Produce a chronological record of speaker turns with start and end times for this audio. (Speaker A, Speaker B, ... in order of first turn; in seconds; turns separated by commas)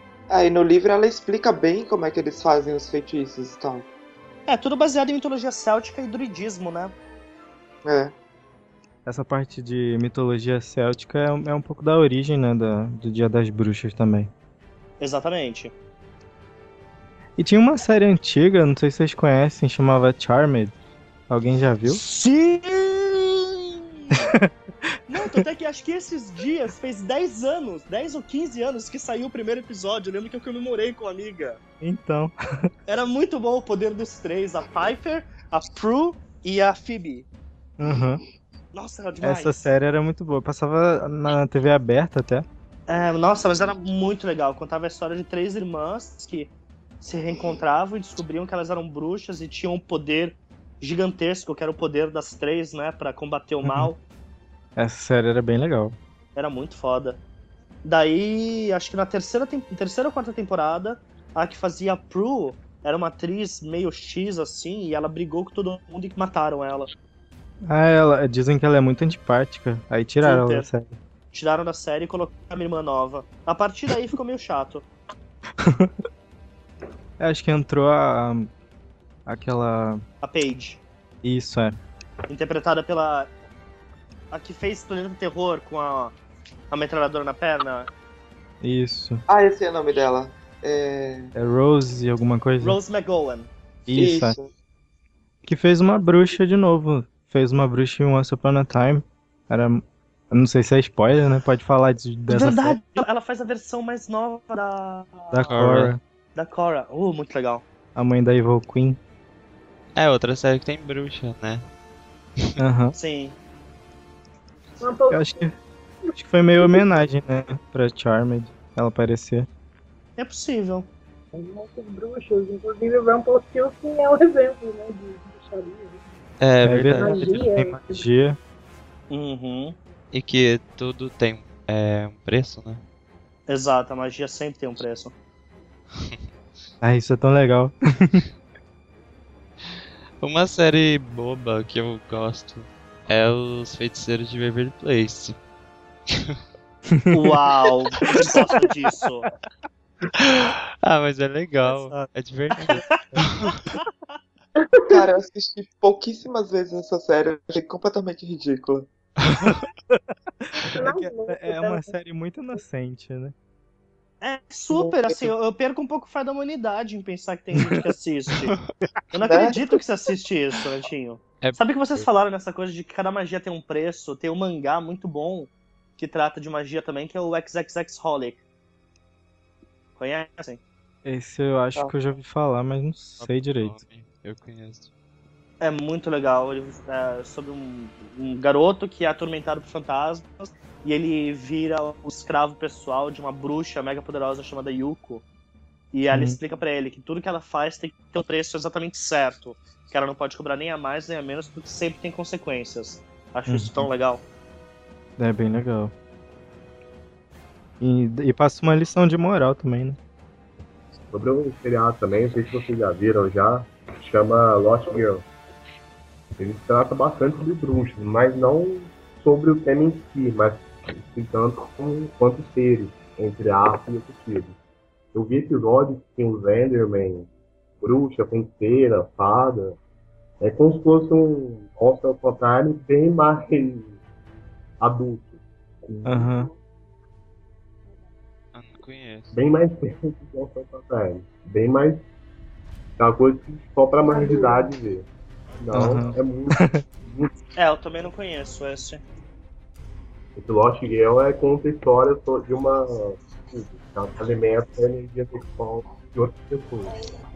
Speaker A: 0.3-3.9, Speaker B: 4.5-6.9, Speaker A: 7.8-8.1, Speaker C: 9.1-14.3, Speaker B: 15.0-15.7, Speaker C: 17.4-20.8, Speaker C: 21.3-22.0, Speaker B: 21.9-24.3, Speaker C: 24.1-24.5, Speaker B: 25.1-31.6, Speaker C: 31.8-32.4, Speaker B: 32.9-37.3, Speaker C: 37.8-38.2, Speaker B: 38.7-39.7, Speaker C: 39.2-42.5, Speaker B: 42.9-54.0, Speaker C: 53.6-53.9, Speaker C: 54.8-56.0, Speaker B: 56.4-57.2, Speaker B: 57.8-66.9, Speaker C: 67.7-71.0, Speaker B: 70.2-70.7, Speaker B: 71.3-74.9, Speaker C: 75.6-75.9, Speaker C: 77.2-78.5, Speaker C: 79.3-80.0, Speaker B: 80.2-80.8, Speaker C: 81.2-81.8, Speaker B: 82.3-83.3, Speaker B: 84.3-86.2, Speaker B: 86.7-87.9, Speaker C: 88.6-89.2, Speaker A: 89.3-91.3, Speaker C: 91.3-92.8, Speaker B: 92.6-93.5, Speaker C: 93.9-94.4, Speaker A: 93.9-94.5, Speaker C: 95.5-103.0, Speaker B: 102.3-105.5, Speaker C: 105.3-106.0, Speaker D: 105.5-106.0, Speaker B: 106.4-107.6, Speaker C: 108.0-109.0, Speaker D: 110.0-111.7, Speaker C: 112.6-113.0, Speaker B: 113.0-113.4, Speaker E: 114.8-115.5, Speaker C: 115.1-115.6, Speaker E: 116.1-116.8, Speaker C: 116.2-119.5, Speaker B: 120.2-120.9, Speaker E: 121.3-126.0, Speaker D: 126.4-127.6, Speaker C: 126.6-128.4, Speaker E: 127.0-128.0, Speaker B: 129.1-129.8, Speaker D: 130.1-132.8, Speaker B: 133.5-135.1, Speaker C: 136.8-138.2, Speaker D: 140.2-145.4, Speaker D: 146.1-146.4, Speaker C: 146.9-147.2, Speaker B: 147.1-149.3, Speaker D: 150.2-153.5, Speaker C: 151.7-152.1, Speaker B: 152.7-153.0, Speaker E: 154.6-155.1, Speaker A: 154.9-158.9, Speaker C: 159.3-163.3, Speaker E: 160.7-161.9, Speaker B: 164.2-168.6, Speaker A: 164.7-165.3, Speaker B: 169.1-178.4, Speaker A: 169.2-169.6, Speaker D: 171.4-172.0, Speaker B: 180.0-180.6, Speaker C: 181.1-183.8, Speaker D: 183.2-184.9, Speaker B: 185.6-195.2, Speaker B: 195.9-204.2, Speaker C: 196.1-196.4, Speaker C: 203.5-203.9, Speaker C: 205.2-205.9, Speaker C: 207.8-210.0, Speaker F: 211.1-215.2, Speaker F: 216.4-224.6, Speaker F: 225.1-227.3, Speaker F: 227.8-229.8, Speaker F: 230.4-234.0, Speaker F: 234.8-236.3, Speaker C: 236.1-236.5, Speaker D: 238.5-239.3, Speaker F: 239.3-242.0, Speaker F: 243.0-245.1, Speaker E: 244.1-244.7, Speaker F: 245.6-247.3, Speaker C: 245.7-246.8, Speaker B: 247.6-249.0, Speaker F: 250.4-256.9